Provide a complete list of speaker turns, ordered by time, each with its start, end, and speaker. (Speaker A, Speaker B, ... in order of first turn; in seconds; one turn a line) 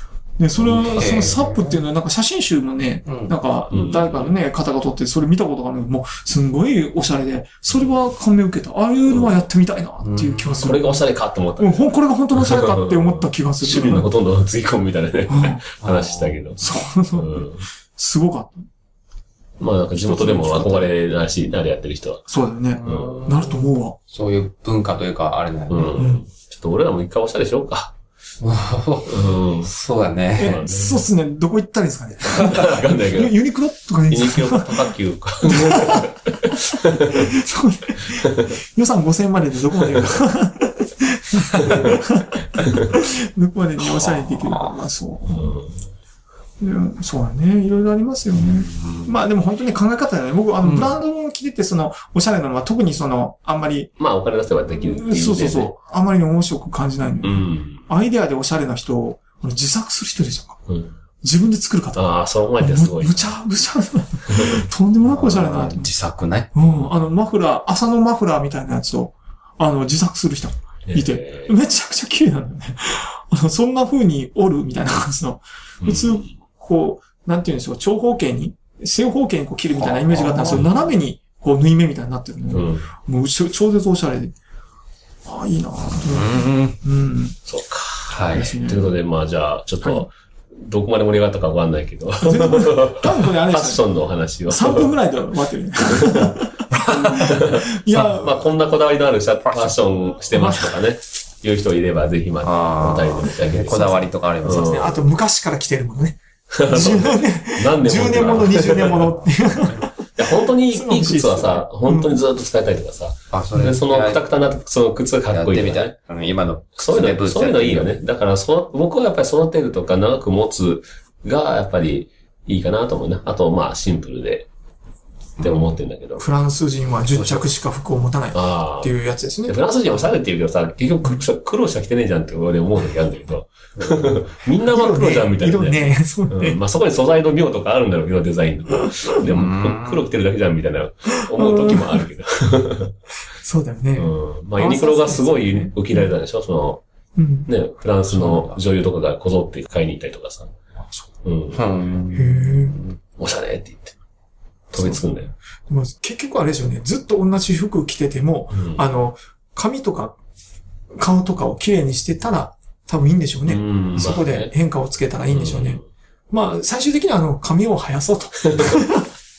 Speaker A: 0.4-11.0
Speaker B: 0.6-1.1
Speaker C: 0.9-1.8
Speaker C: 3.1-3.3
Speaker B: 3.7-4.3
Speaker C: 10.0-10.8
Speaker B: 10.6-16.6
Speaker A: 11.6-14.1
Speaker A: 15.3-15.6
Speaker C: 15.8-16.5
Speaker A: 16.6-18.7
Speaker B: 17.1-17.6
Speaker B: 19.6-22.2
Speaker A: 20.0-20.9
Speaker A: 22.3-24.0
Speaker C: 22.8-26.0
Speaker B: 22.9-23.2
Speaker B: 25.7-27.9
Speaker A: 26.0-26.2
Speaker C: 28.4-30.6
Speaker B: 29.1-29.7
Speaker A: 30.4-34.9
Speaker B: 30.4-31.0
Speaker B: 32.2-33.4
Speaker B: 34.1-37.3
Speaker A: 35.4-45.5
Speaker B: 38.2-38.5
Speaker B: 41.7-42.0
Speaker C: 43.8-44.8
Speaker B: 45.3-45.8
Speaker A: 46.6-53.9
Speaker C: 48.4-49.1
Speaker B: 54.0-55.7
Speaker A: 54.7-60.6
Speaker B: 57.2-57.8
Speaker A: 61.2-65.9
Speaker B: 62.0-63.2
Speaker B: 64.3-64.6
Speaker C: 65.1-66.5
Speaker A: 66.5-84.3
Speaker B: 70.9-71.5
Speaker B: 75.8-76.2
Speaker C: 79.8-80.9
Speaker B: 82.5-82.9
Speaker A: 85.3-87.4
Speaker C: 86.0-86.8
Speaker B: 87.5-95.0
Speaker C: 88.1-88.5
Speaker A: 88.3-89.0
Speaker A: 92.2-93.9
Speaker A: 94.5-98.4
Speaker B: 95.9-96.4
Speaker B: 97.0-105.0
Speaker A: 100.2-100.8
Speaker C: 102.4-104.8
Speaker A: 104.5-109.9
Speaker B: 106.5-109.2
Speaker B: 110.2-115.9
Speaker A: 110.7-112.2
Speaker C: 113.3-114.3
Speaker C: 115.3-118.0
Speaker B: 116.8-124.5
Speaker C: 125.4-125.7
Speaker B: 125.4-126.2
Speaker A: 126.2-130.1
Speaker C: 127.1-127.5
Speaker B: 128.3-128.9
Speaker B: 129.4-142.9
Speaker A: 134.7-136.6
Speaker C: 139.2-140.1
Speaker A: 141.3-142.0
Speaker A: 143.4-146.1
Speaker B: 144.0-146.8
Speaker A: 147.2-147.5
Speaker B: 147.5-150.5
Speaker A: 148.1-148.5
Speaker C: 148.3-148.6
Speaker B: 151.2-151.6
Speaker C: 151.5-153.0
Speaker A: 152.1-152.8
Speaker B: 153.2-153.9
Speaker B: 154.7-155.3
Speaker A: 154.8-155.1
Speaker A: 155.7-160.2
Speaker B: 158.5-158.8
Speaker A: 161.0-169.1
Speaker B: 163.5-164.5
Speaker B: 165.3-165.8
Speaker B: 168.5-168.8